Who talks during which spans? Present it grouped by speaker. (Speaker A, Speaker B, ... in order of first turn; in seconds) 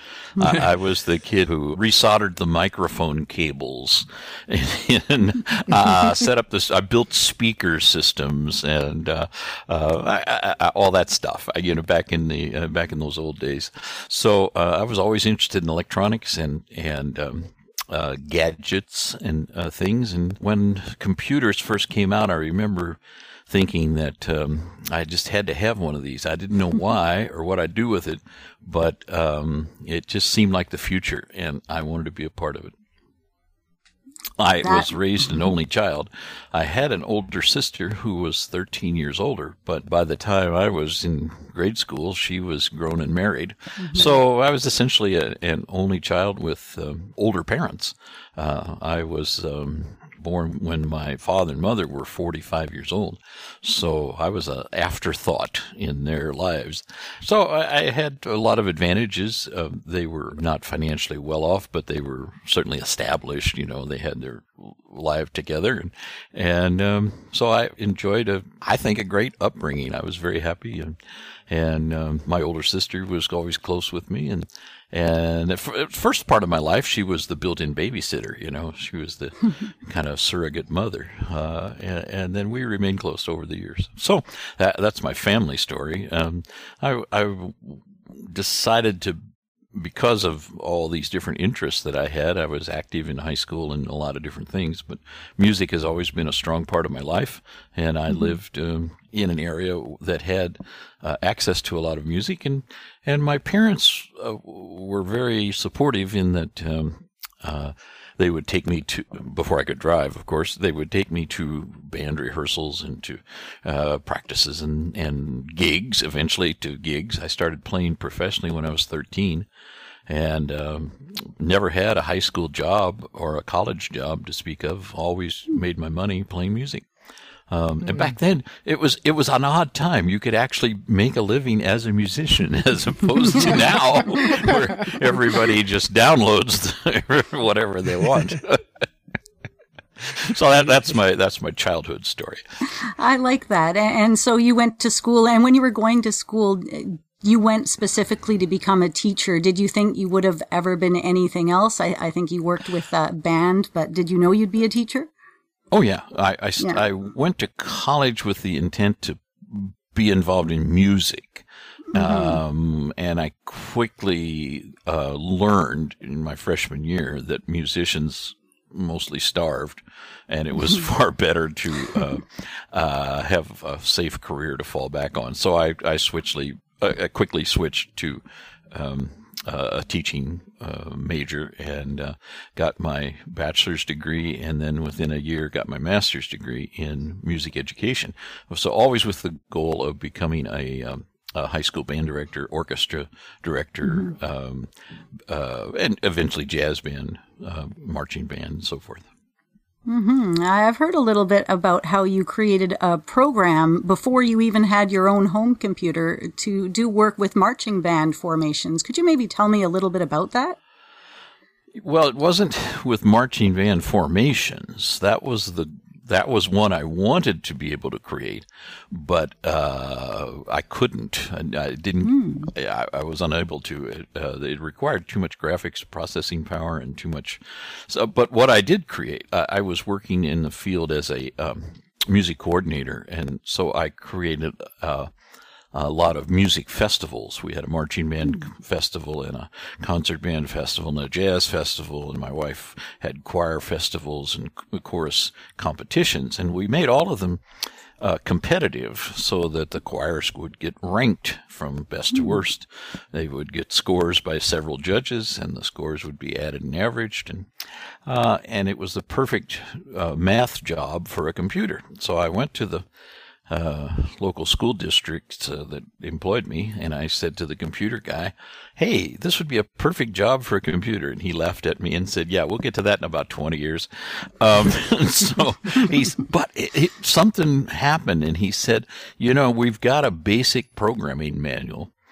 Speaker A: 0.3-32.7, 34.4-71.0, 71.5-89.2, 89.7-119.5, 120.1-126.8, 127.5-138.6, 140.0-142.4, 155.7-194.7, 195.3-199.1, 211.8-235.1, 235.7-247.4, 248.0-257.5, 258.1-262.9, 263.5-281.9
Speaker B: 34.6-34.9, 43.8-44.1, 142.8-155.1, 161.9-162.4, 199.8-210.6, 222.1-222.5